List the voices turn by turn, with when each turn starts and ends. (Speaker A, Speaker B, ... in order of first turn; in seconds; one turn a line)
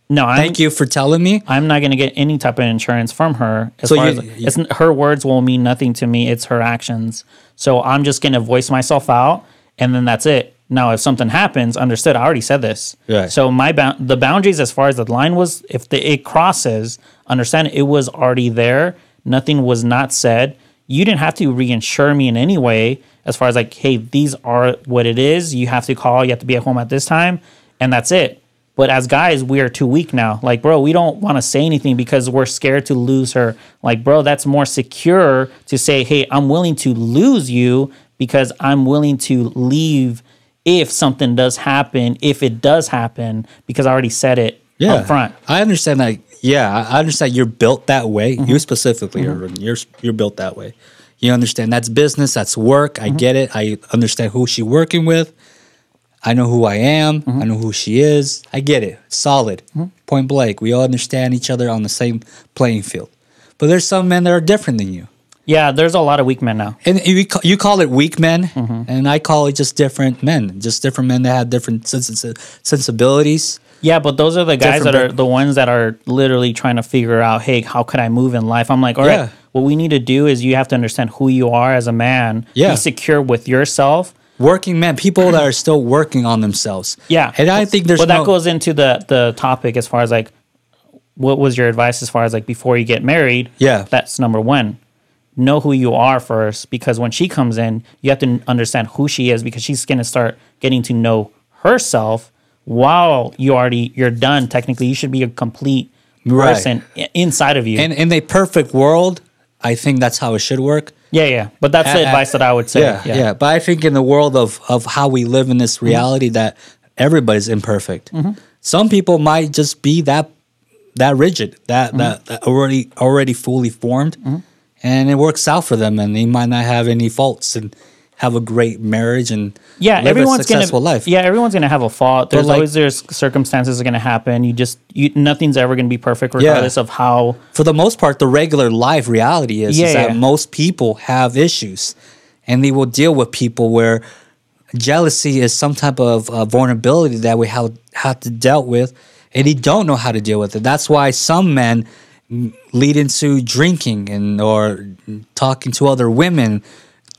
Speaker A: 0.1-0.6
Speaker B: 0.4-1.4
Speaker A: 1.5-45.4
Speaker B: 3.9-4.5
Speaker B: 44.8-55.3
Speaker B: 56.2-65.1
Speaker A: 65.5-66.8
Speaker B: 66.8-73.6
Speaker A: 68.6-68.9
Speaker A: 73.8-84.2
Speaker B: 74.6-75.1
Speaker B: 79.0-79.3
Speaker B: 82.5-82.8
Speaker B: 84.4-88.3
Speaker A: 87.1-90.3
Speaker A: 91.2-94.8
Speaker B: 93.6-93.9
Speaker A: 95.4-107.9
Speaker B: 106.2-106.7
Speaker B: 107.8-110.9
Speaker A: 111.1-113.3
Speaker B: 111.8-118.1
Speaker B: 118.6-120.3
Speaker B: 121.0-124.2
Speaker B: 124.8-131.1
Speaker A: 129.8-137.4
Speaker B: 132.3-132.7
Speaker B: 136.4-136.8
Speaker B: 137.5-142.0
Speaker A: 139.7-140.2
Speaker B: 142.5-144.0
Speaker B: 144.7-156.6